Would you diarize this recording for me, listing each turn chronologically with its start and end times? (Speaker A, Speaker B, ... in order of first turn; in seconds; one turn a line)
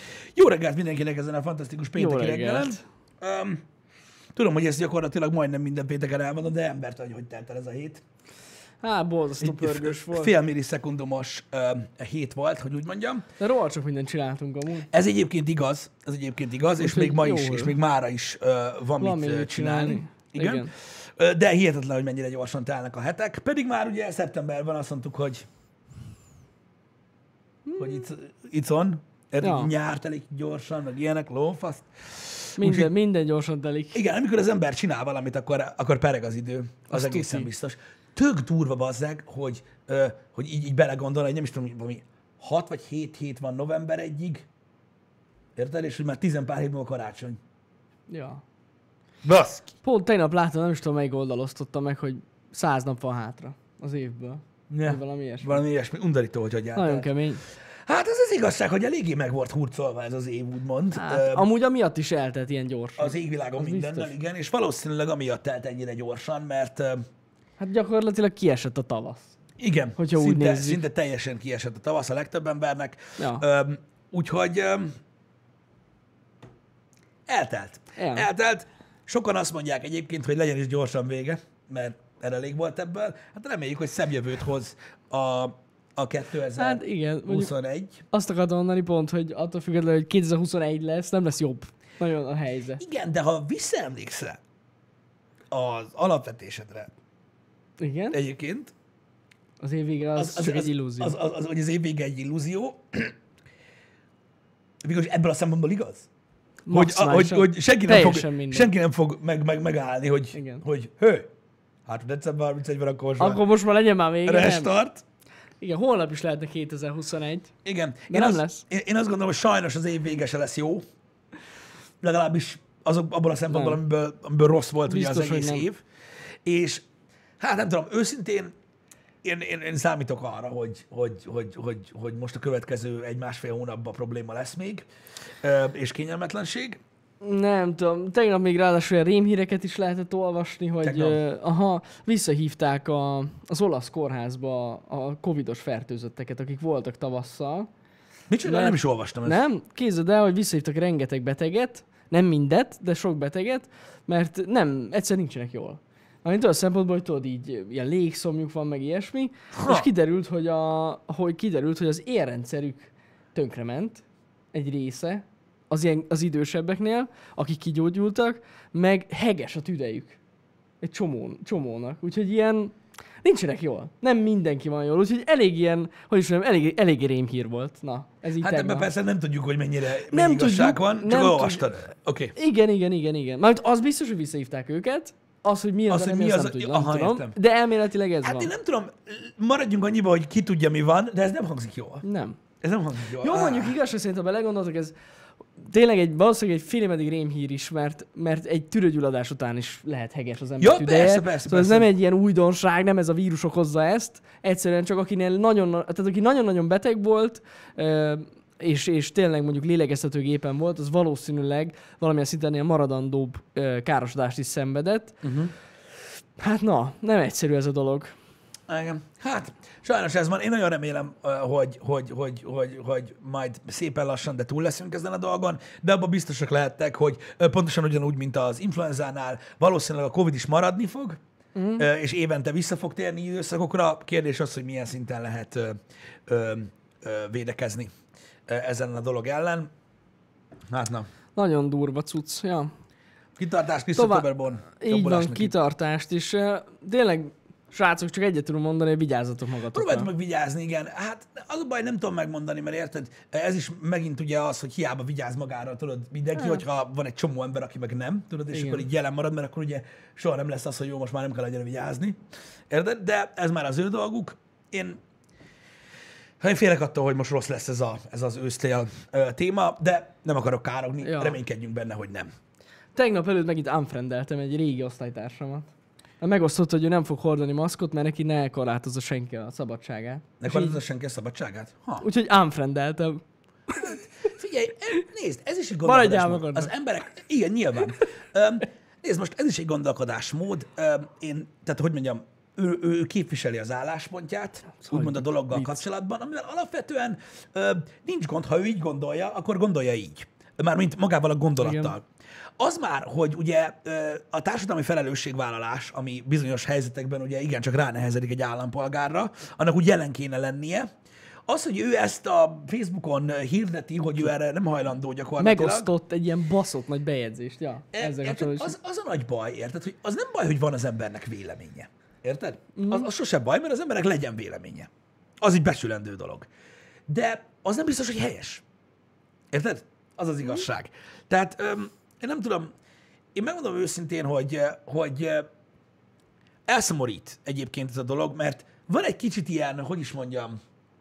Speaker A: 0.3-3.6
Speaker B: 1.9-2.8
Speaker A: 4.3-8.0
Speaker B: 8.8-10.3
Speaker A: 9.4-13.2
Speaker B: 13.4-14.9
Speaker A: 14.9-25.5
Speaker B: 16.8-17.8
Speaker B: 19.0-20.7
Speaker B: 27.6-28.1
Speaker A: 27.8-32.9
Speaker B: 29.4-29.7
Speaker B: 32.6-34.0
Speaker A: 33.9-44.5
Speaker B: 36.9-37.5
Speaker A: 45.5-47.4
Speaker B: 48.1-48.4
Speaker A: 49.2-49.7
Speaker B: 49.8-55.6
Speaker A: 54.7-57.1
Speaker B: 56.7-57.4
Speaker A: 57.9-61.5
Speaker B: 60.9-64.1
Speaker A: 63.0-67.0
Speaker B: 67.6-69.4
Speaker A: 69.6-75.0
Speaker B: 70.0-70.8
Speaker B: 73.2-73.4
Speaker A: 77.3-88.0
Speaker B: 78.0-78.3
Speaker B: 86.5-87.5
Speaker B: 88.1-92.8
Speaker A: 92.8-94.4
Speaker A: 95.5-96.9
Speaker B: 97.8-98.2
Speaker A: 98.1-98.7
Speaker B: 99.6-101.2
Speaker A: 100.2-103.1
Speaker A: 104.8-106.1
Speaker B: 106.7-108.7
Speaker A: 106.7-111.3
Speaker B: 110.3-110.6
Speaker A: 111.9-113.4
Speaker B: 113.2-114.8
Speaker A: 114.2-115.0
Speaker B: 115.6-117.5
Speaker A: 117.6-120.8
Speaker B: 118.1-118.6
Speaker A: 122.0-125.8
Speaker B: 123.5-123.8
Speaker B: 124.9-125.7
Speaker A: 126.5-126.8
Speaker A: 127.4-128.5
Speaker A: 129.2-134.9
Speaker A: 135.4-136.8
Speaker B: 137.2-147.7
Speaker A: 140.8-141.2
Speaker A: 148.3-149.4
Speaker B: 148.4-170.2
Speaker A: 159.5-159.9
Speaker B: 170.8-178.9
Speaker A: 178.4-182.3
Speaker B: 180.1-181.7
Speaker B: 182.4-188.5
Speaker A: 185.9-187.4
Speaker A: 188.2-192.0
Speaker B: 192.0-192.4
Speaker A: 192.6-193.8
Speaker B: 193.2-194.9
Speaker B: 195.6-215.2
Speaker A: 200.6-201.9
Speaker A: 215.2-215.5
Speaker B: 216.4-218.1
Speaker A: 218.7-231.2
Speaker B: 231.6-231.9
Speaker A: 231.8-237.9
Speaker A: 238.5-239.7
Speaker A: 240.7-241.1
Speaker B: 241.4-242.7
Speaker A: 243.4-245.6
Speaker B: 244.0-250.1
Speaker A: 249.7-262.2
Speaker B: 256.4-256.6
Speaker B: 258.5-258.9
Speaker A: 262.7-265.0
Speaker A: 266.4-272.3
Speaker B: 271.0-271.4
Speaker B: 272.9-275.7
Speaker B: 276.2-280.8
Speaker A: 280.4-282.1
Speaker B: 282.0-284.0
Speaker A: 283.8-302.0
Speaker B: 285.9-286.7
Speaker B: 294.8-295.8
Speaker B: 301.6-301.9
Speaker A: 302.6-310.9
Speaker A: 311.5-315.9
Speaker B: 315.4-318.7
Speaker A: 317.9-324.9
Speaker B: 322.8-323.1
Speaker A: 325.4-326.5
Speaker A: 327.1-328.6
Speaker A: 329.5-332.7
Speaker A: 333.3-335.5
Speaker A: 336.7-340.6